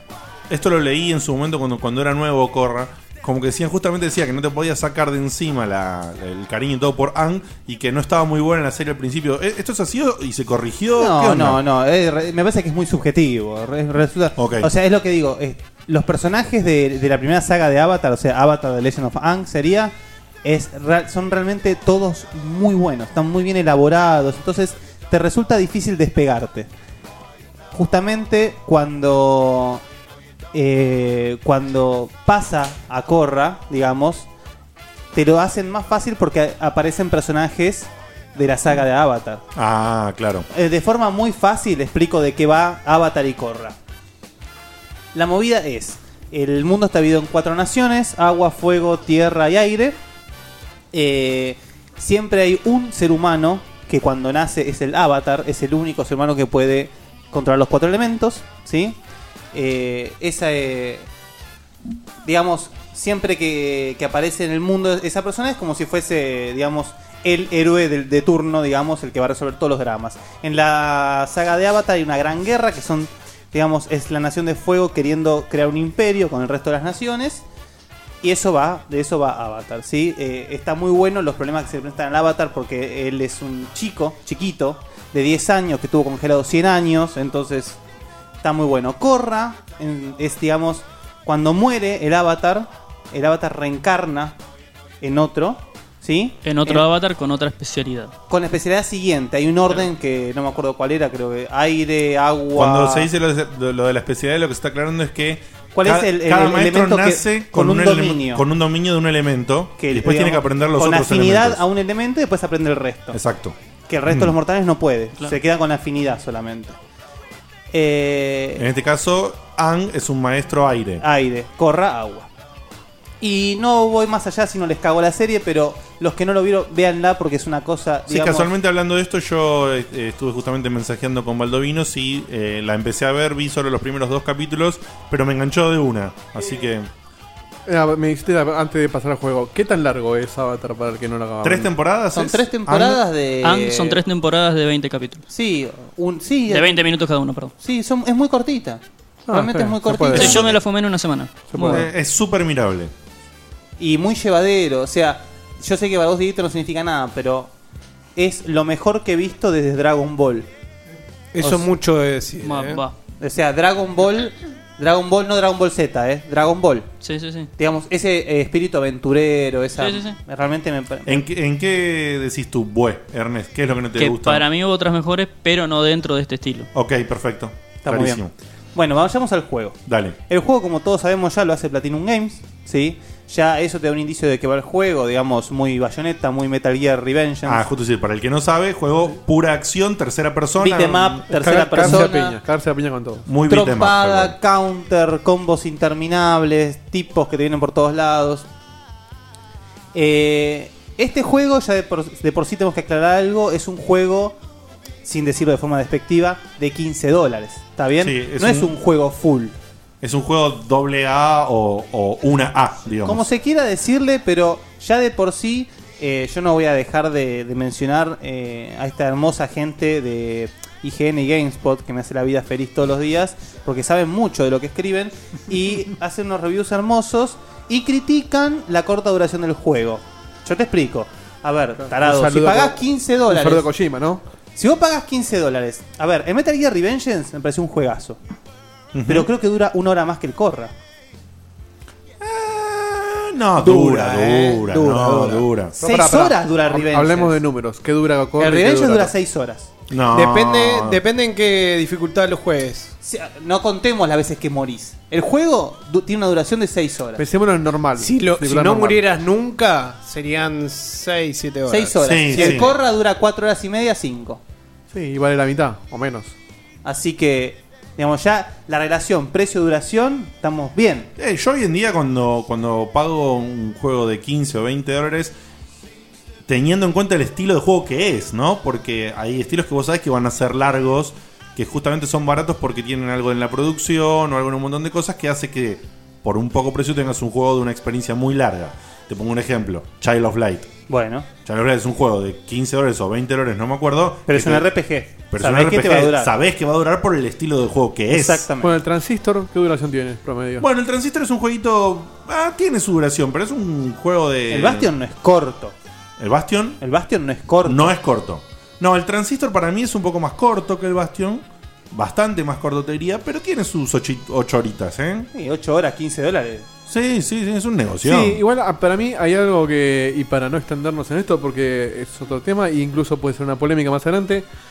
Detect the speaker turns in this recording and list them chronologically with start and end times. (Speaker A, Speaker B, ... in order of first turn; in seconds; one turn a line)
Speaker A: 0.5-11.6
Speaker B: 11.0-26.7
Speaker A: 14.4-14.7
Speaker B: 27.7-29.8
Speaker B: 30.5-34.3
Speaker B: 35.1-39.4
Speaker A: 39.5-40.5
Speaker B: 40.5-43.8
Speaker B: 45.1-50.0
Speaker B: 50.9-59.0
Speaker B: 59.5-61.1
Speaker B: 62.2-77.5
Speaker B: 78.2-87.8
Speaker B: 88.4-94.4
Speaker B: 95.0-96.8
Speaker C: 96.4-98.1
Speaker B: 98.3-103.1
Speaker A: 102.5-111.6
Speaker B: 105.7-108.4
Speaker B: 109.8-113.2
Speaker A: 113.1-113.6
Speaker B: 113.9-116.8
Speaker A: 114.1-114.3
Speaker B: 117.7-118.7
Speaker A: 118.6-121.0
Speaker B: 121.0-122.3
Speaker B: 123.2-128.5
Speaker A: 128.1-136.9
Speaker D: 137.7-141.7
Speaker A: 141.4-143.0
Speaker B: 142.2-144.0
Speaker C: 143.4-145.2
Speaker B: 145.3-146.9
Speaker C: 146.5-147.5
Speaker B: 147.6-150.5
Speaker D: 149.3-150.4
Speaker C: 150.1-151.8
Speaker A: 150.1-150.6
Speaker D: 151.5-151.9
Speaker A: 151.6-152.9
Speaker B: 153.8-157.5
Speaker B: 158.2-160.5
Speaker E: 161.3-162.8
Speaker B: 161.4-161.7
Speaker C: 162.4-162.9
Speaker B: 163.2-166.9
Speaker C: 167.0-167.5
Speaker B: 167.6-171.2
Speaker C: 169.8-170.2
Speaker A: 171.1-174.5
Speaker C: 174.0-176.7
Speaker A: 176.7-178.3
Speaker B: 177.8-178.2
Speaker B: 178.7-187.6
Speaker A: 179.9-180.2
Speaker A: 187.4-191.2
Speaker B: 190.6-192.4
Speaker D: 191.3-193.3
Speaker A: 193.3-194.4
Speaker B: 193.5-198.5
Speaker B: 199.9-204.4
Speaker B: 205.0-209.6
Speaker A: 208.0-208.8
Speaker A: 210.0-213.3
Speaker B: 213.1-233.7
Speaker D: 231.9-234.2
Speaker B: 234.6-238.2
Speaker A: 238.9-239.3
Speaker B: 239.1-240.7
Speaker A: 242.2-245.8
Speaker E: 243.6-245.5
Speaker B: 245.8-247.4
Speaker D: 245.8-249.1
Speaker B: 248.4-249.7
Speaker A: 249.9-251.0
Speaker E: 250.1-252.9
Speaker B: 253.0-257.2
Speaker D: 257.2-259.0
Speaker E: 258.0-262.7
Speaker B: 261.7-264.4
Speaker A: 262.0-262.8
Speaker D: 264.9-266.4
Speaker B: 266.8-271.1
Speaker A: 271.2-275.4
Speaker A: 276.5-290.7
Speaker B: 290.9-291.3
Speaker A: 291.4-294.7
Speaker B: 294.3-296.3
Speaker A: 295.3-298.5
Speaker B: 298.1-298.8
Speaker D: 298.6-300.7
Speaker A: 300.6-304.9
Speaker B: 304.5-305.8
Speaker A: 306.2-306.8
Speaker B: 306.8-307.9
Speaker A: 307.6-315.3
Speaker B: 315.3-316.7
Speaker A: 316.9-318.4
Speaker D: 318.0-324.5